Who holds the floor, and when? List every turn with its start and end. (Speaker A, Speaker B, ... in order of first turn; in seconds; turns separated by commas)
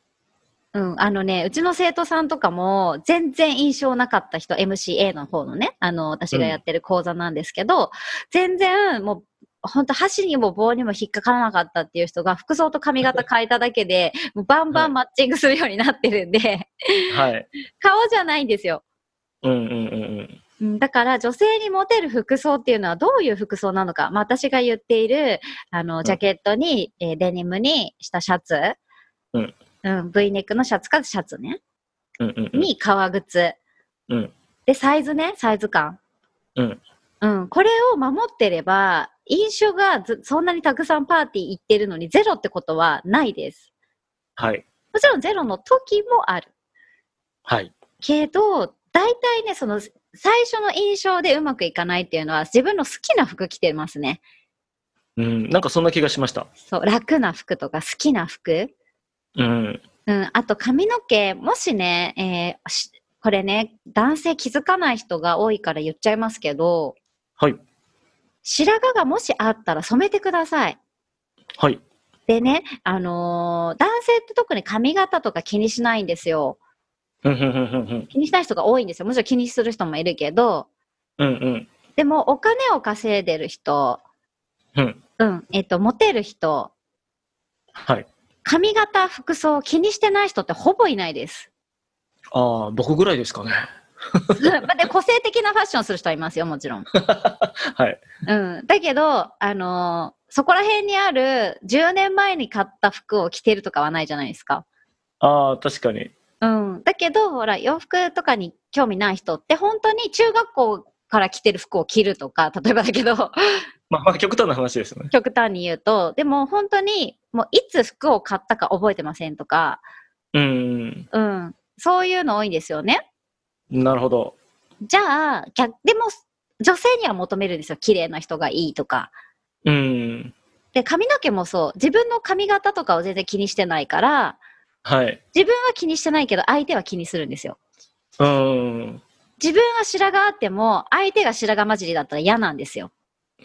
Speaker A: 0.7-17.2, Speaker B: 6.3-6.6, Speaker B: 17.1-17.5, Speaker A: 17.8-18.8, Speaker B: 19.4-20.4, Speaker A: 20.6-28.7, Speaker A: 29.8-31.6, Speaker B: 32.2-32.7, Speaker A: 32.5-33.6, Speaker A: 34.7-36.0, Speaker A: 37.2-43.6, Speaker B: 44.4-44.6, Speaker A: 44.9-46.5, Speaker B: 47.5-47.7, Speaker A: 48.0-54.2, Speaker B: 55.2-56.5, Speaker A: 56.7-58.7, Speaker B: 59.4-59.8, Speaker A: 60.1-67.0, Speaker A: 68.4-70.8, Speaker A: 72.3-76.6, Speaker B: 77.2-78.1, Speaker A: 78.1-80.7, Speaker B: 81.2-81.7, Speaker A: 82.0-84.0, Speaker A: 85.2-86.7, Speaker B: 87.8-88.1, Speaker A: 88.4-91.5, Speaker B: 92.3-94.5, Speaker A: 94.3-96.9, Speaker B: 96.9-98.0, Speaker A: 98.2-104.6, Speaker B: 105.2-106.1, Speaker A: 106.4-113.6, Speaker B: 113.9-115.1, Speaker A: 115.1-119.8, Speaker B: 120.3-121.1, Speaker A: 121.1-123.0, Speaker B: 123.7-124.3, Speaker A: 124.8-129.1, Speaker B: 129.6-130.3, Speaker A: 130.7-134.4, Speaker B: 134.8-135.2, Speaker A: 135.3-137.6, Speaker B: 138.2-139.0, Speaker A: 139.4-142.9